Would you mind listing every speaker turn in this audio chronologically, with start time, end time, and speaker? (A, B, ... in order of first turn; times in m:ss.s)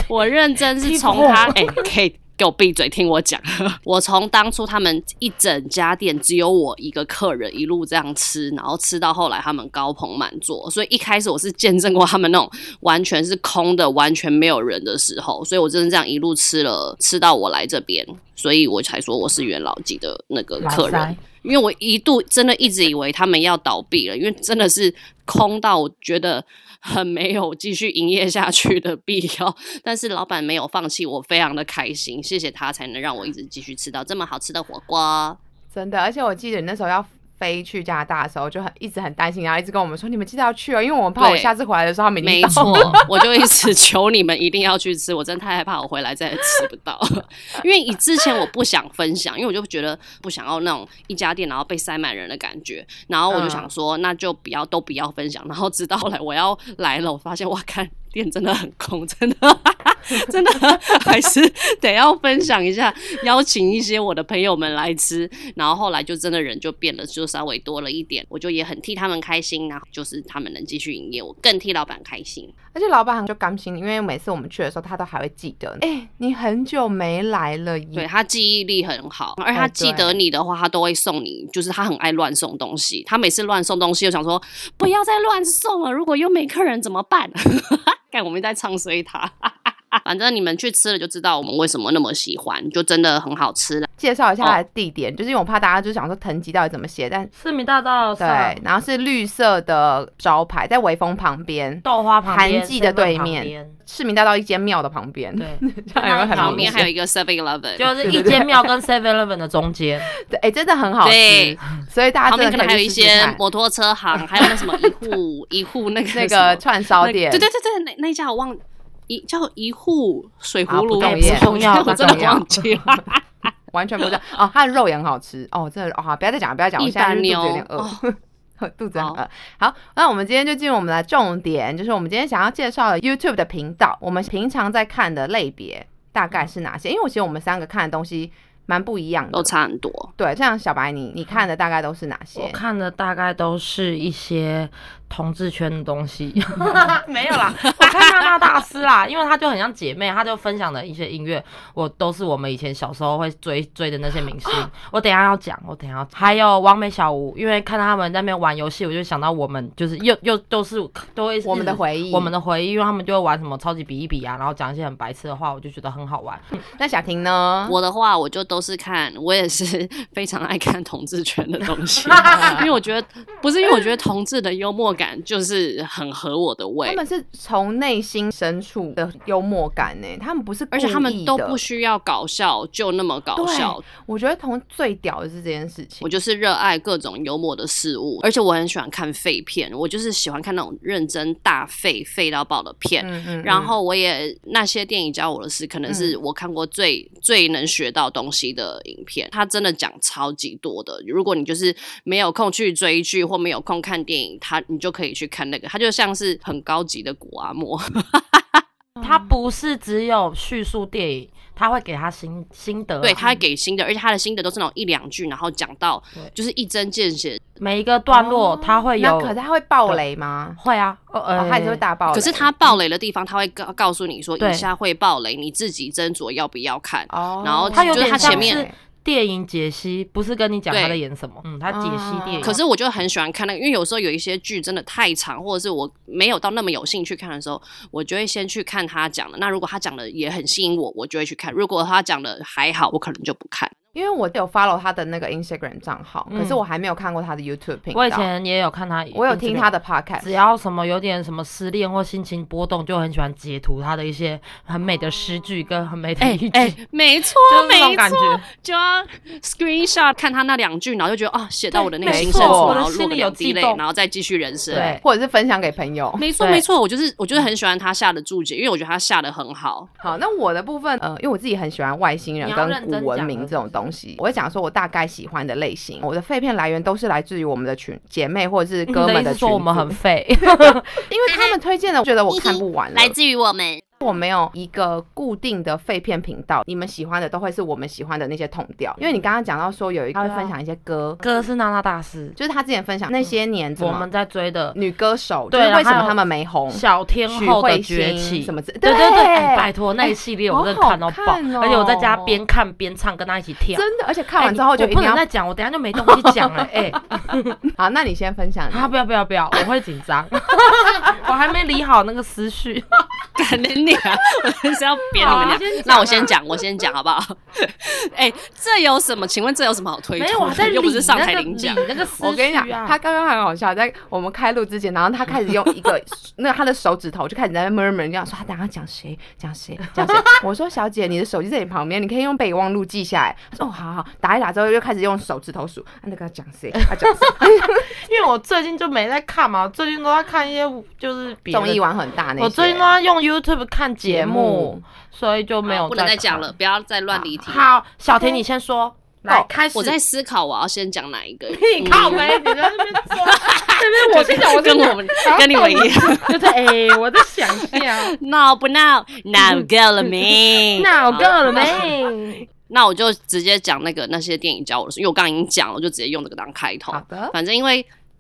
0:00.1-0:35.4 A
0:00.8-0:01.8 B
0:20.6-0:21.2 B
0:35.7-0:43.2 C
0:41.2-0:41.5 A
0:42.2-1:12.5 A
0:42.5-0:43.0 B
0:53.3-0:53.7 C
1:12.7-1:18.1 C
1:18.0-1:33.9 A
1:19.5-1:20.2 C
1:34.0-1:37.3 C
1:37.3-1:38.6 B
1:38.2-1:46.9 C
1:41.8-1:43.8 B
1:45.4-1:46.9 B
1:46.3-1:48.0 A
1:47.8-1:50.1 B
1:48.0-1:48.7 C
1:50.2-1:53.4 C
1:51.0-1:51.6 A
1:52.3-2:03.5 A
1:54.3-1:55.0 C
1:56.1-1:57.5 C
2:00.7-2:03.0 C
2:01.0-2:02.5 B
2:03.7-2:19.5 C
2:06.8-2:08.0 A
2:09.0-2:09.2 A
2:19.3-2:20.1 A
2:20.2-2:22.6 C
2:22.4-2:46.4 B
2:27.8-2:28.1 A
2:41.4-2:42.3 C
2:46.8-2:47.8 C
2:47.7-2:57.0 A
2:56.9-3:01.6 C
3:00.7-3:03.8 A
3:03.4-3:06.1 C
3:06.0-3:28.6 A
3:13.0-3:13.8 C
3:15.9-3:16.2 C
3:29.0-3:29.2 C
3:29.0-3:33.2 B
3:33.0-3:37.4 A
3:37.6-3:39.4 B
3:38.1-3:40.6 C
3:40.6-3:41.8 B
3:41.4-3:42.7 C
3:42.1-3:48.6 A
3:44.4-3:44.7 B
3:47.1-3:48.8 C
3:47.7-3:52.6 B
3:50.7-3:51.0 A
3:51.7-3:52.6 C
3:52.4-4:03.7 A
4:03.9-4:08.3 C
4:06.3-4:06.6 B
4:07.9-4:16.8 B
4:09.1-4:10.4 C
4:16.2-4:25.0 A
4:17.4-4:18.5 B
4:21.7-4:23.8 B
4:22.0-4:22.8 C
4:24.7-4:25.0 B
4:24.7-4:26.2 C
4:26.2-4:29.9 A
4:26.4-4:26.6 B
4:30.0-4:43.2 C
4:32.4-4:33.8 B
4:38.9-4:40.9 B
4:43.0-4:43.8 A
4:44.0-4:51.2 C
4:50.2-4:50.5 B
4:51.2-4:52.4 B
4:52.4-4:54.1 C
4:53.8-4:54.8 B
4:54.7-5:02.4 C
4:55.5-4:56.2 B
4:56.7-5:03.9 B
5:03.7-5:05.2 C
5:04.4-5:07.6 B
5:06.0-5:07.0 C
5:07.7-5:08.9 C
5:08.7-5:13.0 B
5:13.4-5:21.9 A
5:15.2-5:16.3 B
5:15.3-5:15.6 C
5:20.2-5:23.0 B
5:22.2-5:37.8 C
5:37.4-5:41.8 B
5:41.5-5:43.0 C
5:42.4-5:46.5 B
5:44.0-5:44.8 C
5:45.7-5:47.7 A
5:47.4-5:50.0 B
5:48.2-5:48.4 C
5:49.8-5:56.4 A
5:51.5-5:58.1 B
5:57.6-6:01.9 A
5:59.4-6:02.5 B
6:02.7-6:07.9 A
6:06.9-6:07.4 C